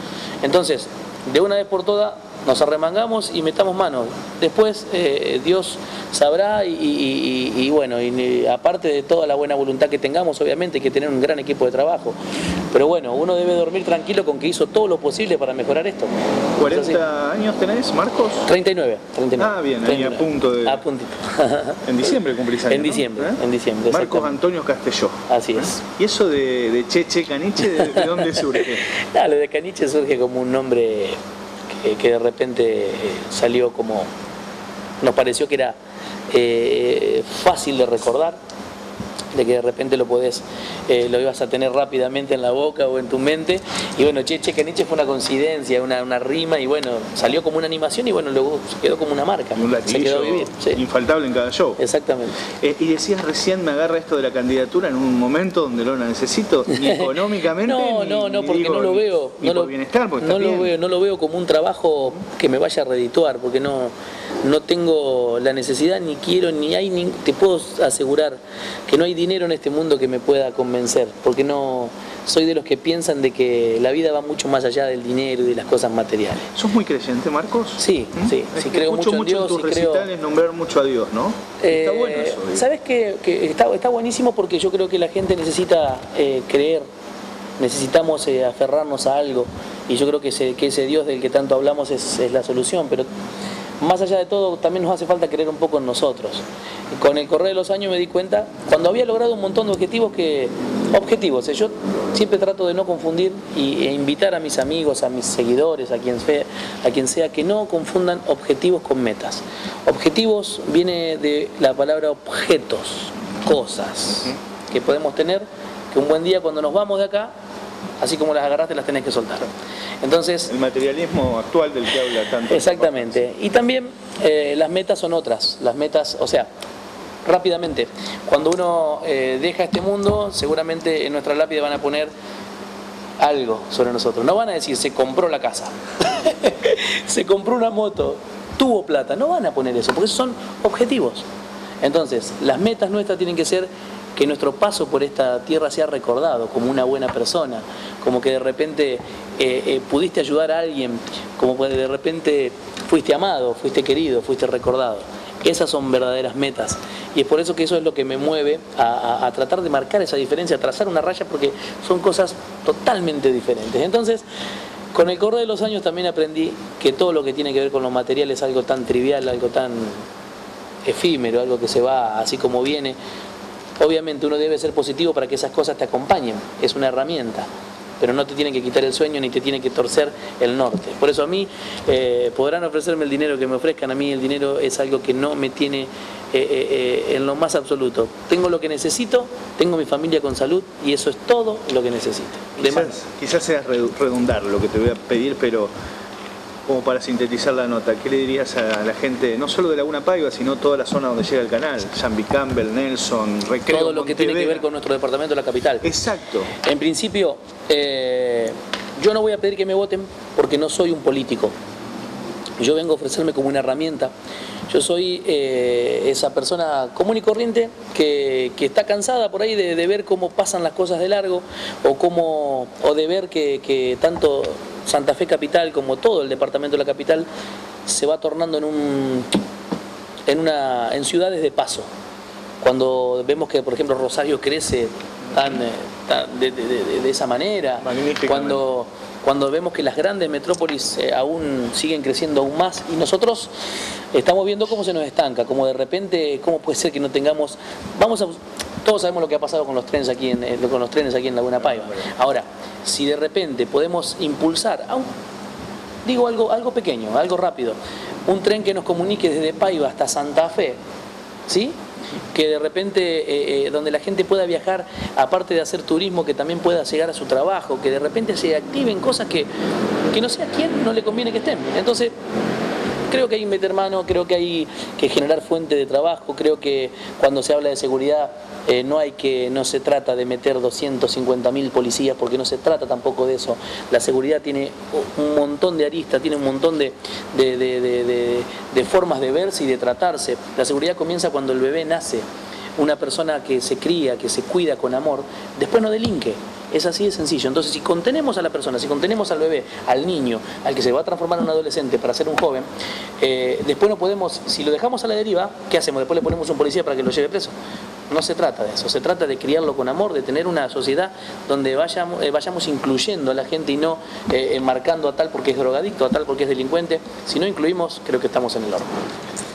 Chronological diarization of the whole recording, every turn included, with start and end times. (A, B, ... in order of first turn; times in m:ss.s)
0:00.4-0:12.2 A
0:12.7-0:17.0 A
0:16.6-0:18.5 B
0:18.5-0:22.1 A
0:19.4-0:20.8 B
0:21.9-0:28.8 B
0:22.7-0:24.3 A
0:25.3-0:25.8 A
0:27.7-0:31.2 A
0:31.7-0:34.1 A
0:35.0-0:35.8 A
0:36.3-0:38.4 A
0:39.3-0:50.8 A
0:49.6-0:51.8 B
0:51.8-0:52.4 A
0:52.6-1:00.7 B
0:56.8-0:57.1 A
0:57.6-1:16.4 A
1:16.6-1:22.6 B
1:17.8-1:20.1 A
1:21.6-1:26.8 A
1:27.6-1:33.1 A
1:33.8-1:36.4 A
1:36.9-1:57.3 A
1:58.0-1:59.5 A
2:00.0-2:00.5 A
2:00.5-2:03.2 B
2:02.5-2:06.5 A
2:07.2-2:12.1 A
2:13.2-2:21.2 A
2:21.8-2:44.2 A
2:44.9-2:50.0 A
2:50.8-2:53.0 A
2:53.8-2:57.5 A
2:58.0-3:13.0 A
3:12.6-3:15.7 B
3:16.7-3:24.6 B
3:23.7-3:25.8 A
3:25.8-3:26.5 B
3:26.6-3:31.5 A
3:32.6-3:34.1 A
3:34.7-3:47.3 A
3:47.9-3:49.4 A
3:50.3-3:51.9 A
3:52.6-4:03.5 A
3:57.8-3:58.6 B
4:04.1-4:15.1 A
4:16.0-4:20.8 A
4:21.5-4:21.8 A
4:22.3-4:29.5 A
4:30.1-4:32.1 A
4:33.1-4:52.2 A
4:52.8-5:02.7 A
5:03.2-5:07.5 A
5:08.1-5:18.9 A